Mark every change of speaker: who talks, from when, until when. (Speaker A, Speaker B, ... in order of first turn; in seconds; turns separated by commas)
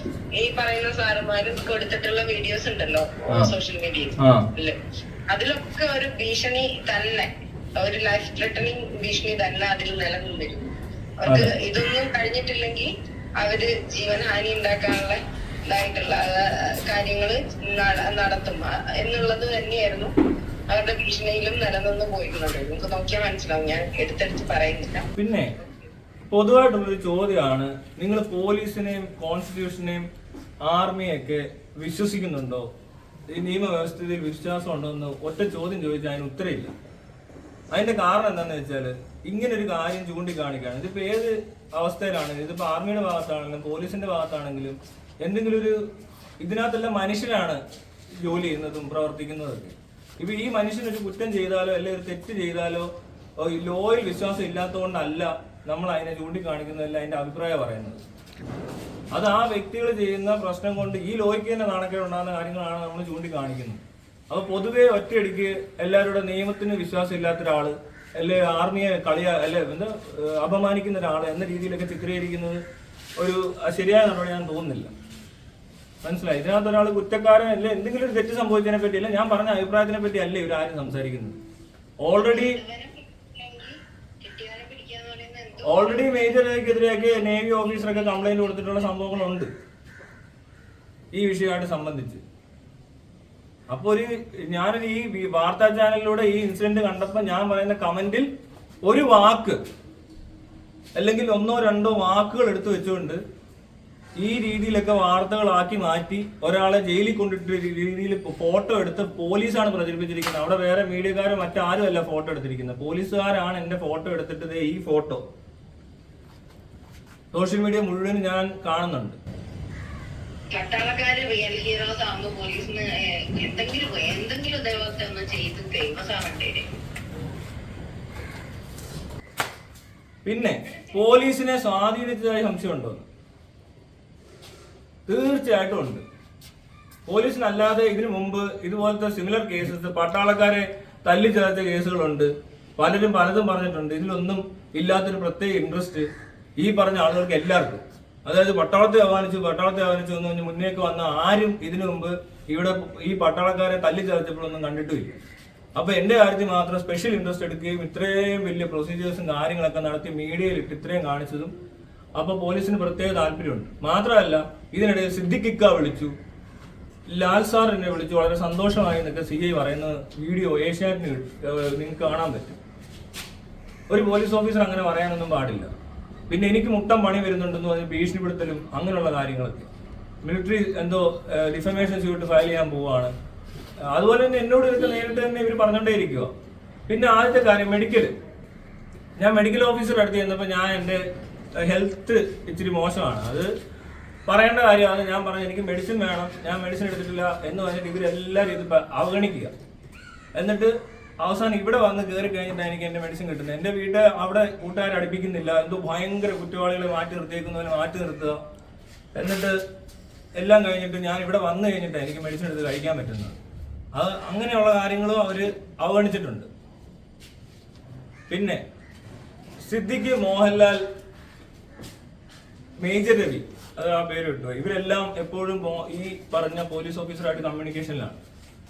Speaker A: 0.4-4.8, Speaker B: 4.2-4.5, Speaker A: 5.3-12.9, Speaker B: 11.3-11.5, Speaker A: 13.4-20.1, Speaker A: 20.7-25.9, Speaker B: 25.2-25.5, Speaker B: 26.3-30.1, Speaker B: 30.7-32.7, Speaker B: 33.3-36.7, Speaker B: 37.7-45.9, Speaker B: 46.4-47.6, Speaker B: 48.2-52.9, Speaker B: 53.4-58.0, Speaker B: 59.1-72.6, Speaker B: 73.2-74.9, Speaker B: 76.0-81.4, Speaker B: 82.0-82.6, Speaker A: 82.2-86.3, Speaker B: 85.7-89.5, Speaker B: 91.1-92.2, Speaker B: 93.7-98.3, Speaker B: 98.8-99.6, Speaker B: 101.0-103.2, Speaker B: 104.2-115.2, Speaker B: 117.3-119.2, Speaker A: 120.5-126.7, Speaker B: 130.2-133.1, Speaker B: 135.1-136.0, Speaker B: 137.1-146.1, Speaker B: 146.6-155.2, Speaker B: 155.8-161.5, Speaker B: 162.2-166.1, Speaker B: 167.1-172.6, Speaker B: 173.9-175.7, Speaker B: 176.3-179.7, Speaker B: 180.2-183.1, Speaker B: 183.9-186.3, Speaker B: 186.9-188.1, Speaker B: 189.2-191.0, Speaker B: 191.6-193.5, Speaker B: 194.3-199.5, Speaker B: 200.3-208.4, Speaker B: 209.2-209.6, Speaker B: 210.4-213.4, Speaker B: 213.9-216.5, Speaker B: 218.3-218.6, Speaker B: 219.6-220.8, Speaker B: 222.8-228.2